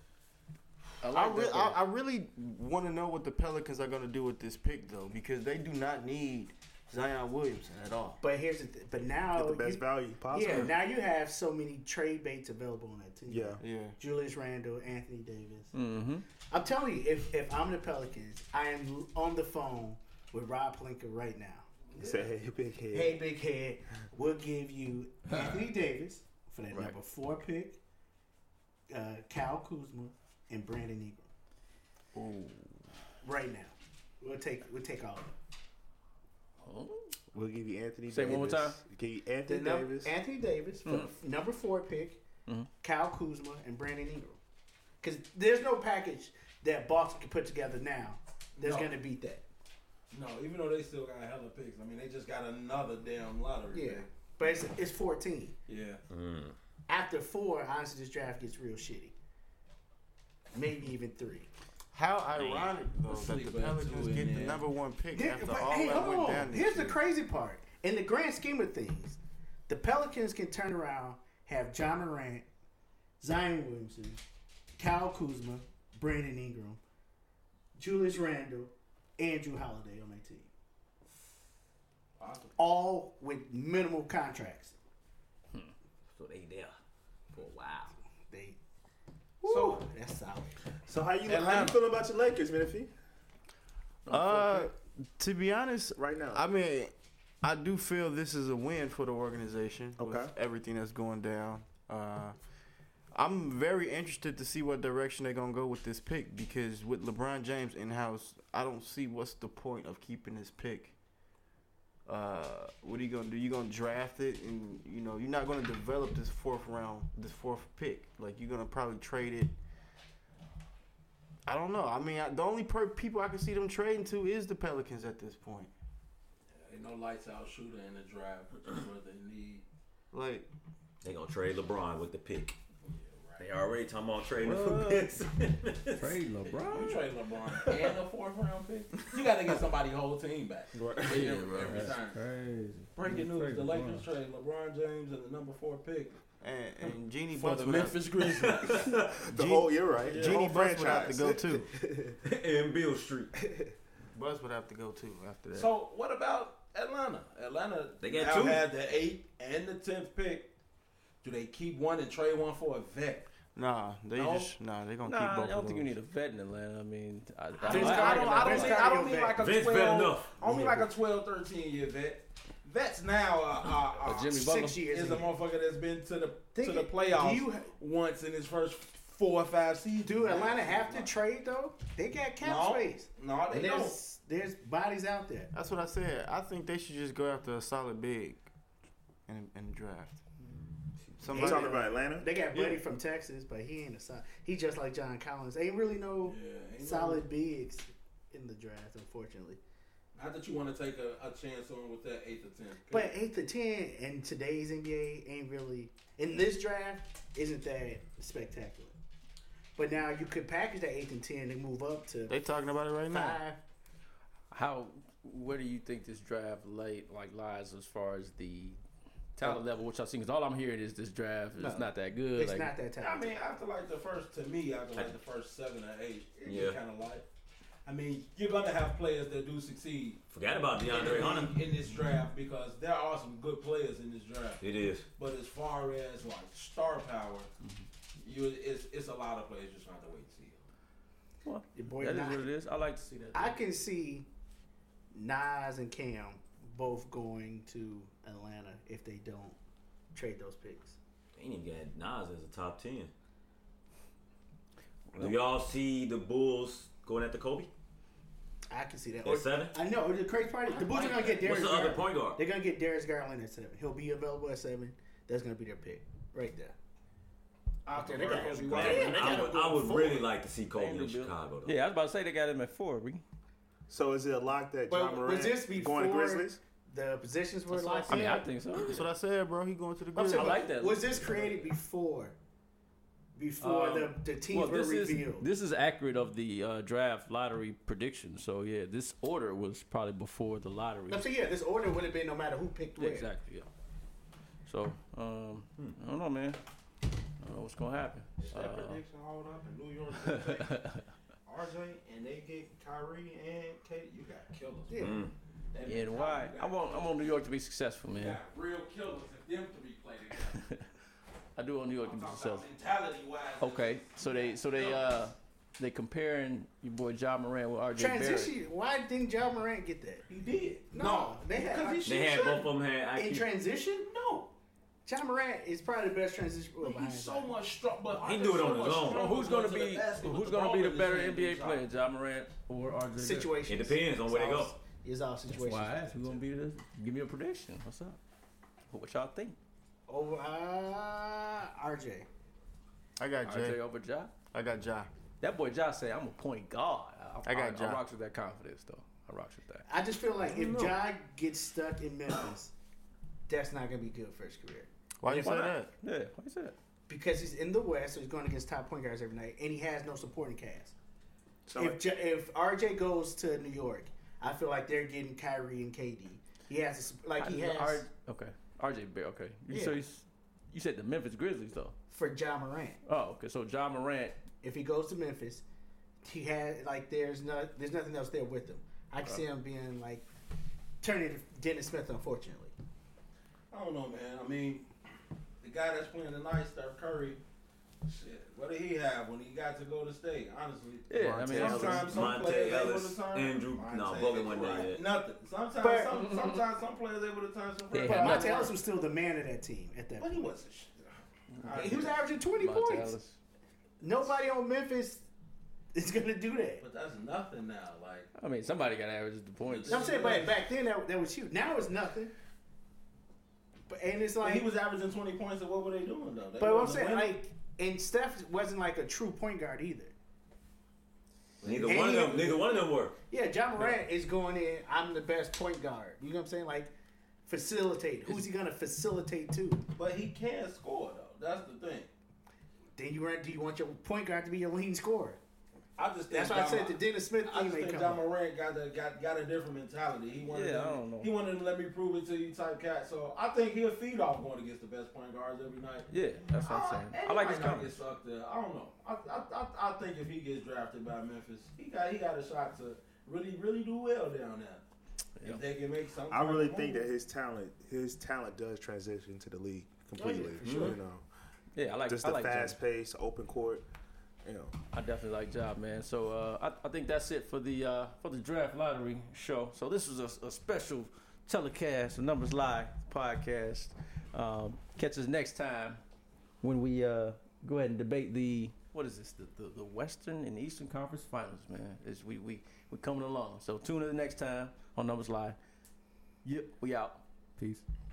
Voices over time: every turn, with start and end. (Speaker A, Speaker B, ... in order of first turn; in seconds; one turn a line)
Speaker A: 1.0-1.8
Speaker B: 1.0-8.2
Speaker C: 8.2-15.7
Speaker D: 9.3-10.7
Speaker D: 13.3-13.6
Speaker B: 13.6-13.9
Speaker A: 15.7-16.2
Speaker C: 16.5-21.7
Speaker D: 21.9-23.2
Speaker C: 22.9-27.8
Speaker C: 28.9-31.2
Speaker A: 32.2-32.6
Speaker C: 33.2-35.3
Speaker A: 36.6-37.1
Speaker D: 37.3-40.2
Speaker A: 38.1-38.8
Speaker C: 39.5-42.2
Speaker A: 40.8-41.1
Speaker C: 42.8-44.4
Speaker C: 45.0-49.4
Speaker E: 48.6-48.9
Speaker E: 50.1-54.1
Speaker C: 53.7-55.5
Speaker E: 55.7-56.0
Speaker F: 56.1-56.5
Speaker C: 56.9-59.1
Speaker C: 60.5-61.5
Speaker B: 61.9-67.0
Speaker F: 62.4-62.7
Speaker E: 63.0-64.6
Speaker C: 65.1-72.5
Speaker C: 73.2-74.2
Speaker C: 74.8-76.8
Speaker C: 77.8-80.5
Speaker E: 82.2-82.5
Speaker C: 82.6-84.7
Speaker F: 86.1-86.8
Speaker F: 87.3-87.9
Speaker C: 88.3-88.6
Speaker C: 89.4-90.6
Speaker E: 89.4-89.8
Speaker D: 90.8-92.9
Speaker E: 91.2-91.8
Speaker A: 94.0-94.7
Speaker B: 94.1-102.3
Speaker D: 96.0-96.4
Speaker D: 100.0-100.3
Speaker B: 103.1-110.9
Speaker B: 112.0-119.5
Speaker B: 121.5-125.7
Speaker E: 126.5-129.6
Speaker B: 130.1-130.5
Speaker F: 131.0-132.6
Speaker E: 132.8-133.5
Speaker F: 133.4-136.1
Speaker A: 134.4-135.1
Speaker A: 135.9-137.0
Speaker E: 136.4-142.2
Speaker B: 140.8-141.2
Speaker A: 141.0-144.1
Speaker E: 142.9-146.2
Speaker B: 146.4-148.0
Speaker E: 146.8-148.9
Speaker F: 148.2-149.1
Speaker D: 149.1-152.2
Speaker B: 149.3-151.7
Speaker E: 150.0-150.4
Speaker F: 152.2-153.3
Speaker D: 153.3-153.7
Speaker B: 154.1-155.7
Speaker E: 155.5-160.5
Speaker F: 158.0-158.6
Speaker E: 161.2-163.2
Speaker B: 163.5-165.9
Speaker E: 164.2-164.5
Speaker A: 165.0-169.0
Speaker E: 167.6-181.1
Speaker C: 167.7-169.4
Speaker F: 169.3-170.3
Speaker C: 170.4-170.9
Speaker A: 174.0-174.9
Speaker C: 174.3-175.3
Speaker C: 176.5-177.7
Speaker C: 180.0-185.5
Speaker E: 182.4-183.9
Speaker B: 185.5-188.4
Speaker B: 189.3-190.2
Speaker F: 191.0-191.3
Speaker B: 191.2-191.7
Speaker D: 191.3-192.4
Speaker C: 191.3-199.6
Speaker F: 192.5-192.8
Speaker E: 196.2-197.3
Speaker E: 200.1-203.1
Speaker C: 202.9-208.9
Speaker C: 209.8-212.4
Speaker B: 212.3-213.4
Speaker C: 213.1-213.6
Speaker A: 214.5-218.8
Speaker A: 219.3-222.7
Speaker C: 221.5-223.3
Speaker E: 223.0-227.2
Speaker F: 226.4-226.8
Speaker E: 227.8-230.2
Speaker F: 230.3-231.5
Speaker E: 230.8-234.6
Speaker F: 234.6-235.1
Speaker E: 235.2-237.5
Speaker E: 238.2-240.6
Speaker A: 241.4-243.6
Speaker C: 241.7-242.5
Speaker C: 243.3-244.3
Speaker C: 245.1-249.6
Speaker C: 250.1-251.0
Speaker F: 251.3-253.1
Speaker F: 255.1-257.7
Speaker C: 258.7-266.7
Speaker F: 259.2-259.8
Speaker E: 260.7-261.4
Speaker F: 261.4-262.4
Speaker E: 267.9-269.4
Speaker C: 267.9-270.3
Speaker D: 268.1-269.2
Speaker F: 268.6-271.8
Speaker A: 270.7-273.2
Speaker D: 273.9-276.6
Speaker C: 274.9-278.5
Speaker A: 277.7-279.1
Speaker B: 278.7-280.6
Speaker A: 280.1-281.7
Speaker C: 280.2-282.4
Speaker C: 283.3-285.4
Speaker A: 283.6-291.3
Speaker C: 291.1-293.3
Speaker A: 293.0-293.7
Speaker A: 294.6-296.6
Speaker A: 297.4-299.0
Speaker E: 298.4-300.9
Speaker E: 301.4-305.2
Speaker C: 304.9-305.2
Speaker F: 305.0-305.3
Speaker E: 305.7-307.4
Speaker A: 305.8-308.4
Speaker E: 308.1-310.6
Speaker A: 311.6-312.7
Speaker E: 312.0-315.2
Speaker A: 313.6-318.6
Speaker C: 317.9-320.2
Speaker E: 320.3-322.6
Speaker C: 320.9-324.1
Speaker F: 322.0-323.4
Speaker E: 324.0-324.5
Speaker C: 325.0-327.5
Speaker E: 326.8-331.8
Speaker F: 328.2-329.2
Speaker A: 329.1-333.5
Speaker C: 333.1-336.4
Speaker F: 333.7-334.8
Speaker A: 335.5-338.2
Speaker A: 338.9-339.6
Speaker C: 340.1-342.3
Speaker B: 343.2-343.8
Speaker A: 343.4-344.3
Speaker B: 344.5-345.1
Speaker A: 345.4-349.9
Speaker B: 347.4-348.0
Speaker C: 349.9-352.7
Speaker B: 350.4-351.0
Speaker C: 353.5-354.9
Speaker B: 355.2-355.9
Speaker A: 355.3-356.7
Speaker C: 357.1-360.9
Speaker D: 361.6-362.0
Speaker C: 361.8-368.1
Speaker A: 367.4-371.9
Speaker C: 369.7-370.0
Speaker C: 372.1-373.0
Speaker A: 373.0-374.4
Speaker C: 374.6-375.6
Speaker C: 376.2-380.2
Speaker C: 381.0-382.7
Speaker E: 383.7-384.9
Speaker E: 385.6-387.4
Speaker E: 388.0-398.7
Speaker A: 391.1-392.2
Speaker B: 391.1-392.2
Speaker F: 391.7-395.0
Speaker C: 395.8-396.1
Speaker A: 396.1-396.6
Speaker A: 397.9-398.5
Speaker C: 398.1-400.5
Speaker E: 400.1-402.2
Speaker A: 401.5-403.4
Speaker C: 401.7-403.1
Speaker C: 404.0-405.2
Speaker C: 405.9-406.8
Speaker E: 406.8-408.3
Speaker A: 408.3-410.2
Speaker E: 409.6-410.6
Speaker C: 409.9-412.3
Speaker C: 413.9-414.7
Speaker E: 414.4-417.4
Speaker C: 416.6-420.1
Speaker E: 421.6-422.9
Speaker F: 421.6-423.1
Speaker C: 421.8-422.6
Speaker C: 423.3-426.9
Speaker C: 427.4-429.8
Speaker E: 429.9-432.1
Speaker C: 432.9-435.4
Speaker E: 436.0-454.8
Speaker C: 436.3-438.2
Speaker A: 440.5-441.3
Speaker A: 446.1-448.0
Speaker E: 455.4-457.1
Speaker D: 456.3-461.2
Speaker C: 460.2-461.0
Speaker F: 460.6-460.9
Speaker A: 461.7-462.8
Speaker D: 462.1-463.8
Speaker D: 464.4-464.7
Speaker A: 464.9-476.0
Speaker A: 476.6-485.6
Speaker A: 486.4-487.8